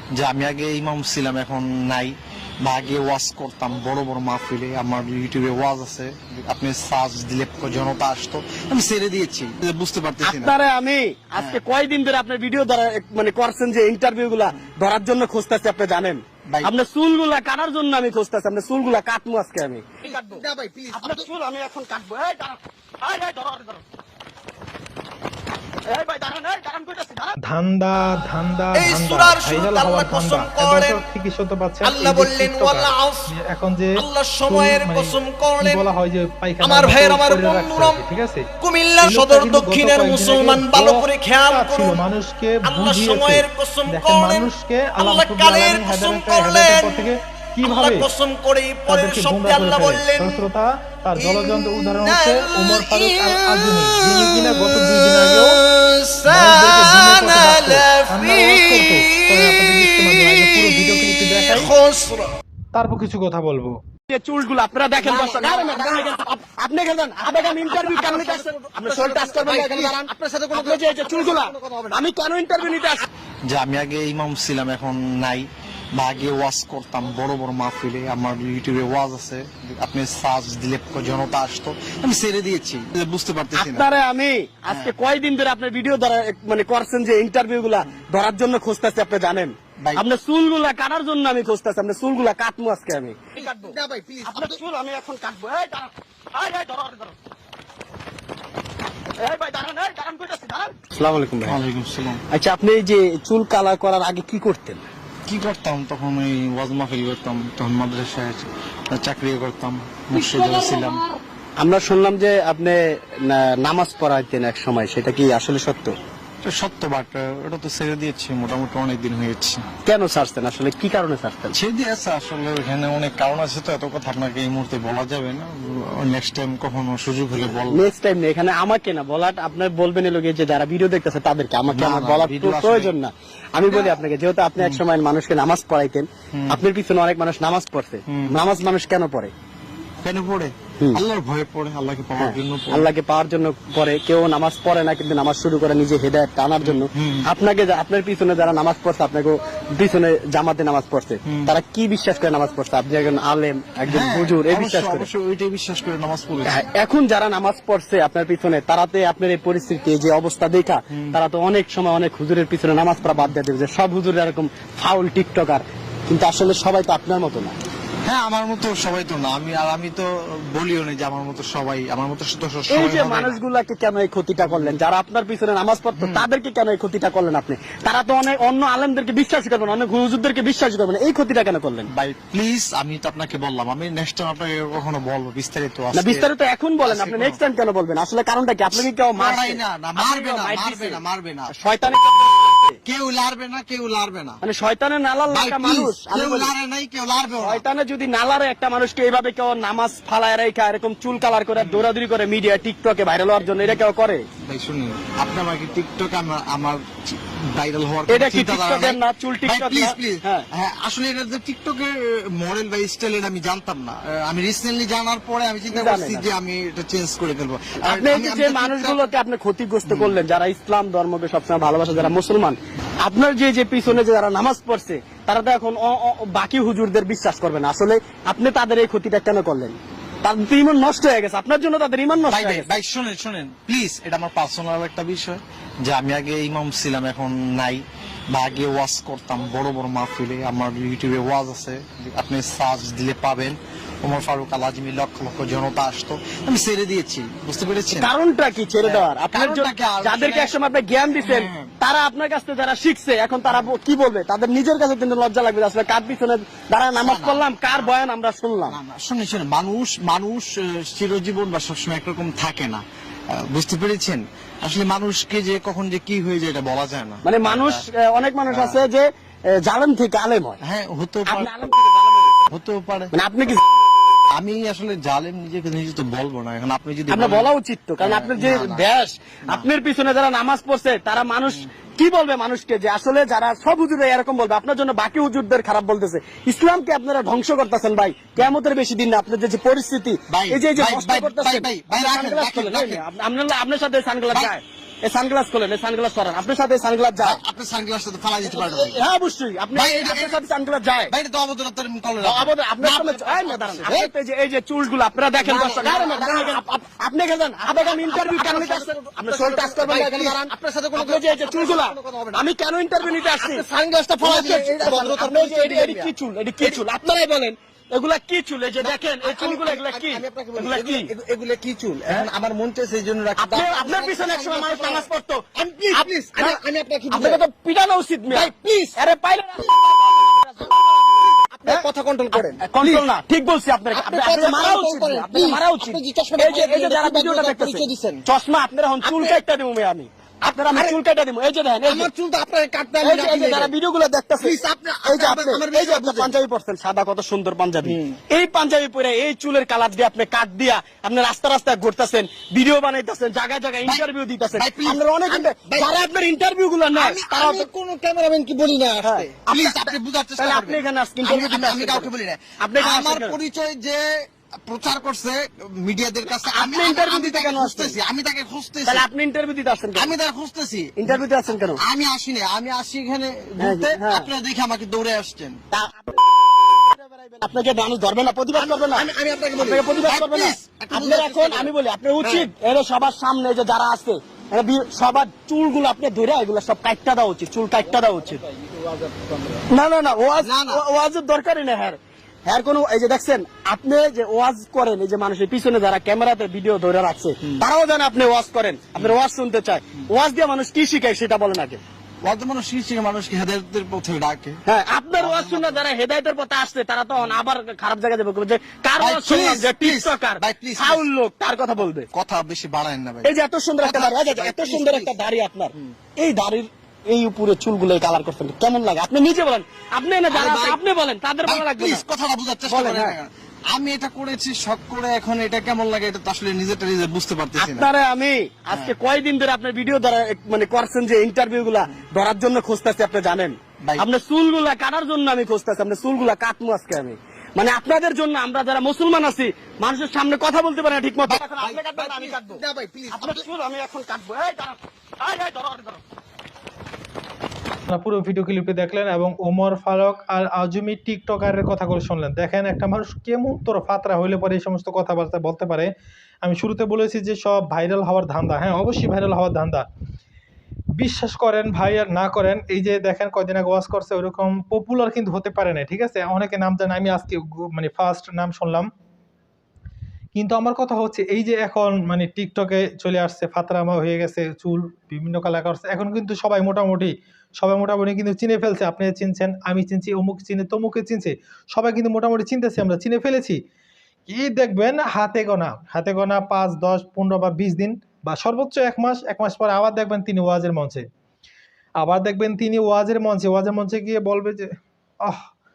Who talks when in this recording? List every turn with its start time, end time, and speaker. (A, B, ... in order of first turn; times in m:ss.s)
0:00.1-0:10.6 A
0:10.2-0:23.8 B
0:11.4-0:11.6 A
0:20.2-0:21.3 A
0:25.9-0:27.4 B
0:27.4-0:38.5 C
0:28.8-0:31.0 D
0:31.8-0:33.3 D
0:34.0-0:35.8 D
0:36.6-0:38.0 D
0:38.6-0:42.0 D
0:39.0-0:48.1 C
0:42.6-0:47.1 D
0:47.6-0:50.4 D
0:48.9-0:55.6 C
0:51.2-1:02.3 D
0:56.2-1:01.8 C
1:02.7-1:03.8 C
1:04.1-1:13.1 B
1:05.2-1:06.1 A
1:07.4-1:11.9 A
1:13.5-1:23.9 A
1:23.5-1:33.8 B
1:24.7-1:25.0 A
1:29.8-1:30.0 A
1:33.4-1:34.6 A
1:34.3-1:37.2 B
1:39.2-1:41.6 B
1:41.4-1:42.2 A
1:42.3-1:44.9 B
1:45.3-1:51.1 A
1:51.6-1:56.0 B
1:56.4-1:59.6 A
1:59.8-2:01.6 B
2:01.5-2:07.8 A
2:07.7-2:19.3 B
2:11.7-2:12.9 A
2:13.6-2:13.9 A
2:16.3-2:16.6 A
2:18.1-2:18.4 A
2:20.0-2:22.9 A
2:22.2-2:35.1 B
2:26.6-2:27.3 A
2:31.3-2:31.5 A
2:33.9-2:36.7 A
2:36.4-2:47.6 B
2:40.9-2:41.2 A
2:48.0-2:53.4 A
2:52.7-3:01.9 B
2:54.4-2:54.8 A
2:56.0-2:56.3 A
3:01.9-3:06.3 A
3:06.0-3:12.8 B
3:06.8-3:07.4 A
3:08.8-3:11.5 A
3:12.8-3:14.4 A
3:14.4-3:16.5 B
3:15.3-3:17.6 A
3:17.4-3:24.2 B
3:21.6-3:21.9 A
3:24.4-3:39.0 A
3:28.1-3:30.5 B
3:35.7-3:36.3 B
3:37.8-3:52.8 B
3:39.9-3:40.2 A
3:52.3-4:08.1 A
4:07.9-4:18.8 B
4:08.8-4:10.5 A
4:11.2-4:11.7 A
4:17.0-4:17.9 A
4:18.7-4:27.8 A
4:27.2-4:30.6 B
4:28.5-4:28.8 A
4:30.6-4:31.8 A
4:31.3-4:32.4 B
4:32.4-4:33.1 A
4:33.1-4:33.7 B
4:34.3-4:38.8 A
4:37.1-4:57.4 B
4:50.3-4:53.0 A
4:57.2-4:59.0 A
4:58.4-5:01.1 B
4:59.7-5:00.4 A
5:01.1-5:04.1 A
5:02.2-5:13.6 B
5:05.4-5:06.6 A
5:07.7-5:12.4 A
5:13.0-5:16.8 A
5:14.2-5:21.1 B
5:18.8-5:27.4 A
5:23.4-5:42.1 B
5:28.3-5:29.0 A
5:29.6-5:33.1 A
5:33.9-5:38.2 A
5:39.0-5:39.4 A
5:40.5-5:41.0 A
5:41.8-5:43.7 A
5:43.0-5:57.7 B
5:44.4-5:46.3 A
5:47.8-5:48.2 A
5:53.8-5:55.9 A
5:56.9-6:09.1 A
5:59.0-6:03.4 B
6:06.4-6:08.0 B
6:08.8-6:10.1 B
6:10.0-6:11.2 A
6:11.0-6:11.8 B
6:11.8-6:15.6 A
6:13.6-6:14.3 B
6:15.7-6:28.4 B
6:18.5-6:22.5 A
6:29.0-6:29.3 A
6:29.5-6:41.8 B
6:30.4-6:30.8 A
6:42.2-6:44.6 A
6:44.7-6:52.1 B
6:45.2-6:45.8 A
6:49.0-6:51.0 A
6:52.1-6:55.2 A
6:53.2-7:02.0 B
7:00.3-7:00.8 A
7:01.4-7:07.9 A
7:02.7-7:03.2 B
7:07.6-7:26.0 B
7:13.8-7:14.1 A
7:21.3-7:23.4 A
7:27.9-7:35.9 C
7:36.4-7:39.9 C
7:41.0-7:48.9 C
7:50.4-8:03.6 C
8:04.3-8:11.0 C
8:12.0-8:14.7 C
8:15.2-8:15.5 C